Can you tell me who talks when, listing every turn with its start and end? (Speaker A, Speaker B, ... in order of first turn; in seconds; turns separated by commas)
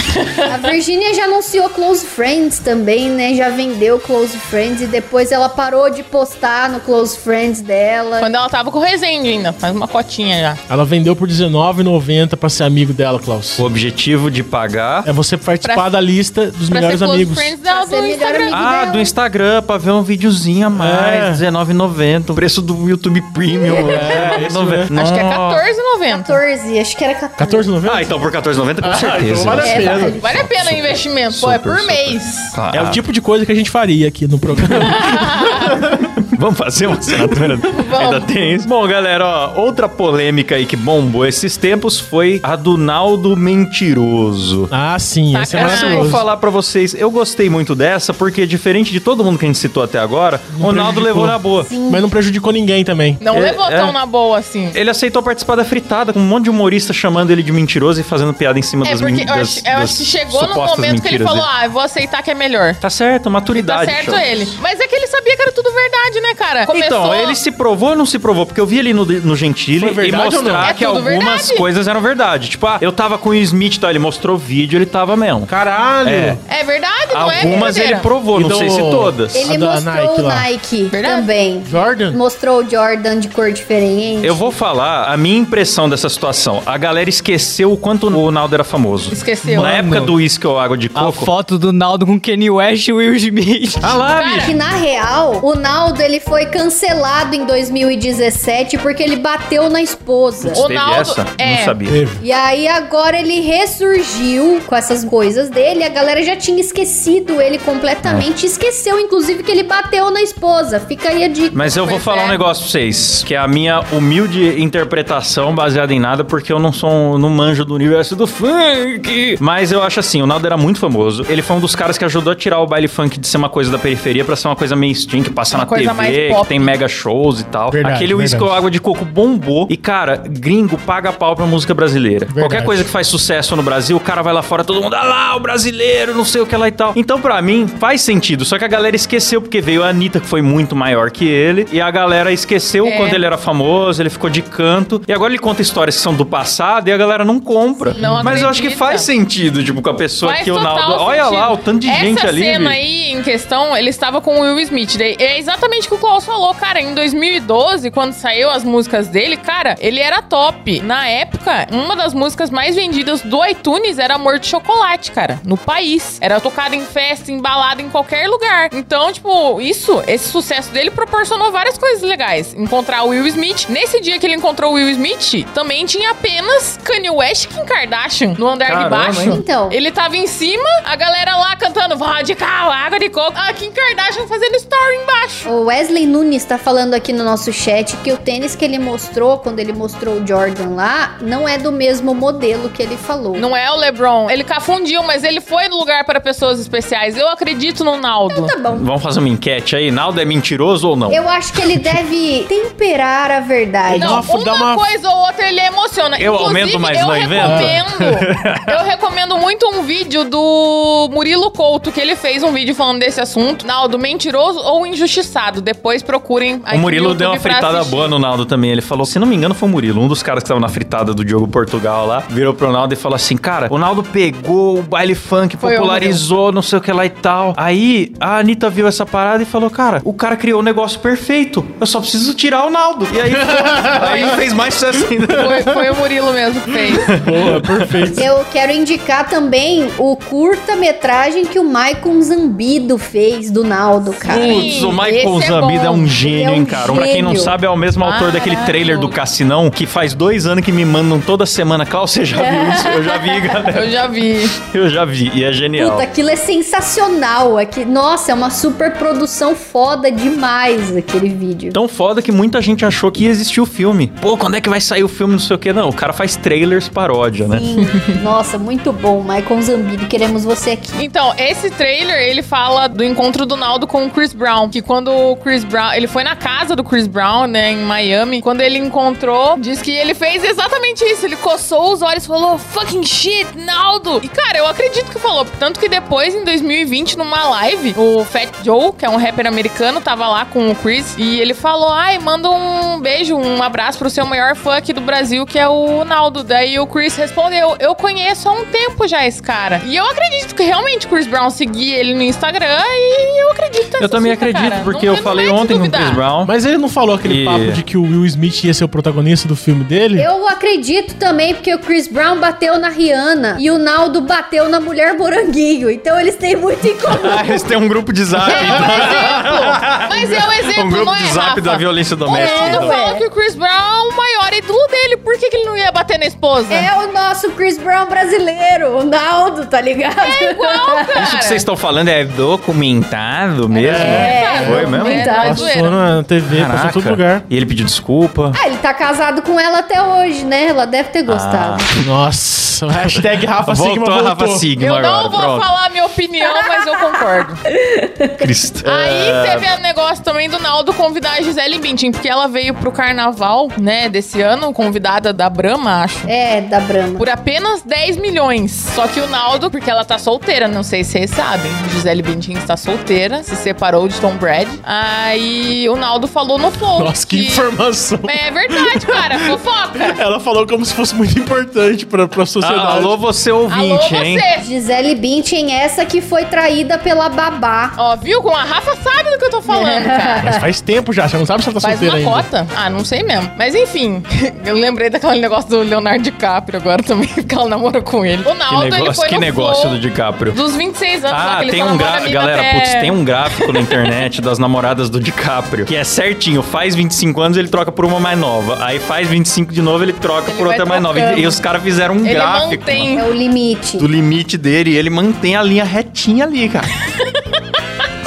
Speaker A: 0.2-0.5, Speaker B: 0.5-8.3, Speaker A: 8.2-10.6, Speaker C: 10.7-13.6, Speaker D: 13.6-15.1, Speaker C: 15.1-17.5, Speaker A: 15.6-16.0, Speaker A: 16.7-18.6, Speaker B: 17.7-19.1, Speaker D: 18.5-25.6, Speaker C: 20.8-21.4, Speaker B: 23.6-24.1, Speaker C: 23.9-24.9, Speaker A: 24.9-26.4, Speaker B: 26.1-27.7, Speaker C: 27.4-28.1, Speaker D: 27.8-33.0, Speaker C: 28.8-30.1, Speaker B: 29.6-30.4, Speaker A: 30.2-32.5, Speaker C: 32.7-35.7, Speaker D: 34.5-44.7, Speaker A: 35.0-35.7, Speaker A: 37.7-38.3, Speaker C: 44.7-46.2, Speaker A: 45.3-46.1, Speaker D: 45.5-51.7, Speaker C: 50.5-53.2, Speaker B: 51.6-52.1, Speaker A: 53.2-54.8, Speaker D: 53.3-54.0, Speaker D: 54.7-61.5, Speaker A: 58.8-62.8, Speaker D: 62.8-64.5, Speaker A: 63.5-67.4, Speaker D: 66.7-75.5, Speaker C: 69.8-70.7, Speaker A: 70.6-71.6, Speaker C: 75.5-76.4, Speaker D: 76.0-76.4, Speaker A: 76.5-78.1, Speaker D: 77.1-79.4, Speaker C: 78.3-80.5, Speaker B: 79.3-84.5, Speaker A: 80.9-81.3, Speaker C: 81.6-82.2, Speaker D: 84.2-91.3, Speaker A: 89.1-89.7, Speaker C: 89.5-90.1, Speaker E: 90.9-94.0, Speaker D: 93.8-94.5, Speaker A: 94.1-94.5, Speaker B: 94.4-100.6, Speaker D: 100.4-102.0, Speaker A: 100.5-101.8, Speaker C: 101.9-102.2, Speaker B: 102.2-111.7, Speaker D: 111.5-152.8, Speaker A: 111.8-112.4, Speaker A: 125.5-126.7, Speaker C: 127.7-128.6, Speaker C: 132.3-132.9, Speaker A: 142.8-143.2, Speaker B: 147.8-148.2, Speaker A: 148.0-149.1, Speaker A: 150.2-185.5, Speaker D: 178.7-179.4, Speaker B: 179.1-179.8, Speaker B: 185.4-193.4, Speaker A: 193.3-198.5, Speaker B: 198.3-198.8, Speaker D: 198.7-201.2, Speaker B: 201.1-204.2, Speaker A: 203.9-218.1, Speaker C: 203.9-204.8, Speaker D: 206.2-208.8, Speaker C: 207.4-207.8, Speaker D: 216.7-235.7, Speaker A: 225.6-226.2, Speaker C: 233.2-234.3, Speaker A: 233.9-234.4, Speaker A: 235.3-237.1, Speaker C: 237.1-238.2, Speaker D: 237.1-238.2, Speaker B: 238.1-244.7, Speaker A: 244.2-246.1, Speaker D: 244.2-256.1, Speaker B: 246.2-247.5, Speaker A: 248.0-249.2, Speaker B: 252.4-253.4, Speaker A: 253.6-254.5, Speaker B: 255.8-261.8, Speaker D: 261.7-267.6, Speaker B: 267.5-271.0, Speaker A: 270.9-306.2, Speaker D: 304.0-306.5, Speaker C: 306.4-310.3, Speaker D: 307.2-307.8, Speaker B: 310.1-317.7, Speaker D: 317.1-322.9, Speaker B: 318.4-319.8, Speaker A: 318.5-326.9, Speaker B: 322.3-323.2, Speaker B: 326.7-331.3, Speaker A: 330.2-331.6, Speaker D: 331.2-335.3, Speaker A: 333.7-336.0, Speaker B: 333.8-335.7, Speaker C: 333.9-337.4, Speaker D: 336.5-338.6, Speaker B: 338.5-341.9, Speaker D: 341.3-342.0, Speaker C: 342.0-344.6, Speaker D: 343.0-345.7, Speaker A: 344.8-347.6, Speaker B: 347.7-348.5, Speaker D: 348.4-349.7, Speaker A: 348.8-356.3, Speaker B: 356.2-357.3, Speaker A: 357.2-367.7, Speaker C: 367.0-369.6, Speaker A: 368.2-370.2, Speaker C: 370.1-373.1, Speaker D: 372.6-374.4, Speaker A: 373.7-374.6, Speaker B: 374.6-378.0, Speaker A: 378.0-380.5, Speaker B: 379.7-380.7, Speaker C: 380.4-382.4, Speaker A: 381.8-390.0, Speaker D: 388.7-390.6, Speaker A: 390.5-394.0, Speaker D: 391.3-403.1, Speaker A: 400.5-401.6, Speaker A: 402.2-403.3, Speaker B: 403.1-404.1, Speaker D: 404.0-406.9, Speaker A: 407.1-407.6